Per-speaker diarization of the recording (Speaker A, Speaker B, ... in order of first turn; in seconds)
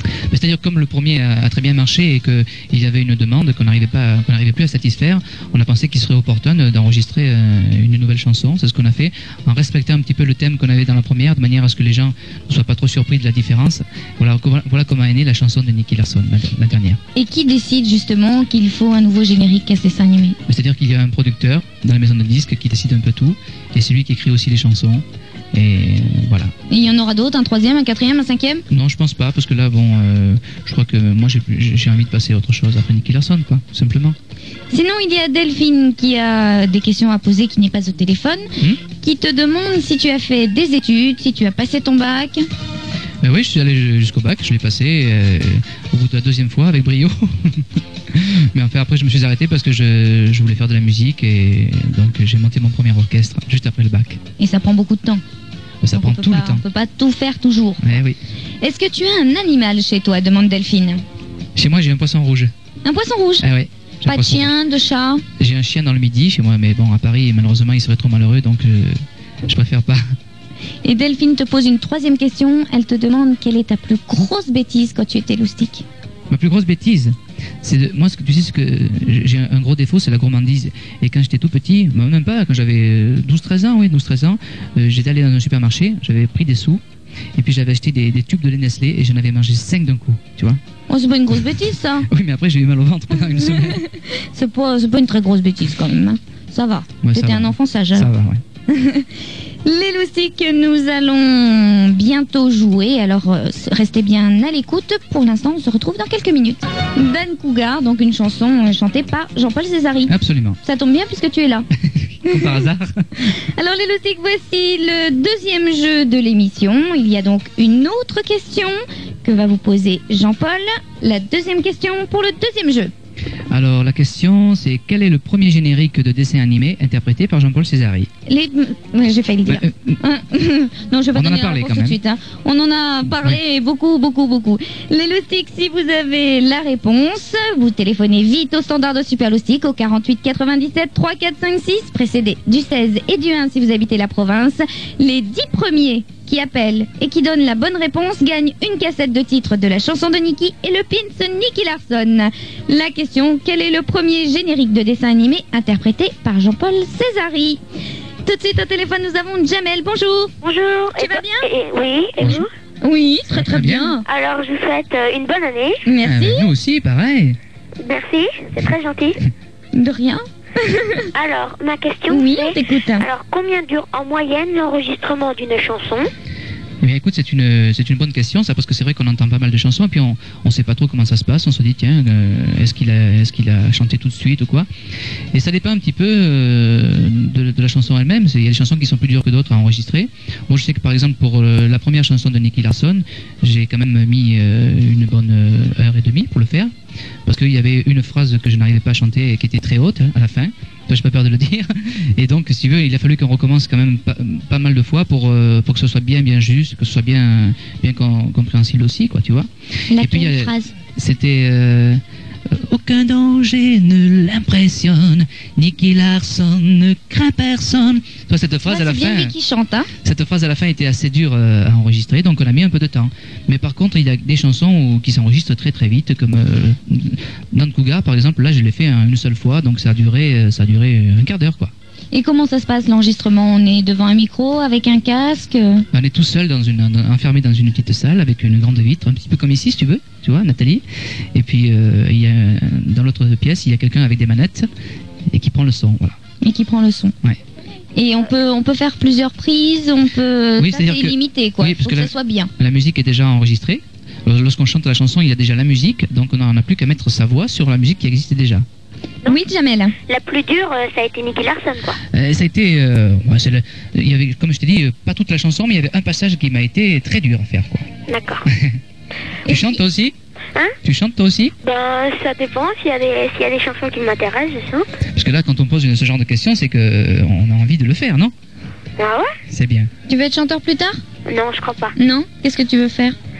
Speaker A: 0.3-17.0, 20.5-26.5, 28.7-34.1, 43.2-54.2, 55.8-56.6, 57.8-58.2, 61.5-62.5, 63.4-64.5, 65.4-70.1, 76.3-86.8, 87.3-90.6, 92.1-93.8, 97.0-98.4, 110.1-110.6, 112.0-113.1, 123.5-128.1, 129.5-130.0, 131.1-132.0, 163.3-163.9, 166.0-167.4, 176.8-184.7, 185.3-196.7, 197.2-219.3, 220.0-231.7, 235.9-244.7, 245.3-246.2, 250.6-258.6, 262.1-267.9, 268.4-268.8, 269.5-270.1, 270.8-271.5, 275.1-278.3, 279.5-279.9
Speaker B: 17.1-20.4, 26.7-28.6, 34.7-42.5, 54.4-55.2, 55.9-57.8, 58.6-61.0, 62.8-63.5, 64.0-65.2, 70.8-75.8, 90.9-92.1, 93.5-98.1, 98.7-111.7, 112.2-112.6, 113.3-122.9, 128.3-157.6, 158.2-160.3, 161.0-161.4, 162.2-164.0, 165.8-166.5, 169.7-171.1, 172.1-173.1, 209.9-210.7, 218.7-219.9, 232.1-235.8, 246.4-247.1, 247.9-252.5, 259.2-259.9, 269.4-269.8, 280.1-281.0, 281.9-283.1
Speaker C: 160.4-162.5, 164.1-165.8, 167.8-169.2, 171.1-176.1, 260.1-262.0, 268.1-268.5, 271.6-274.9, 279.0-279.3, 281.2-281.9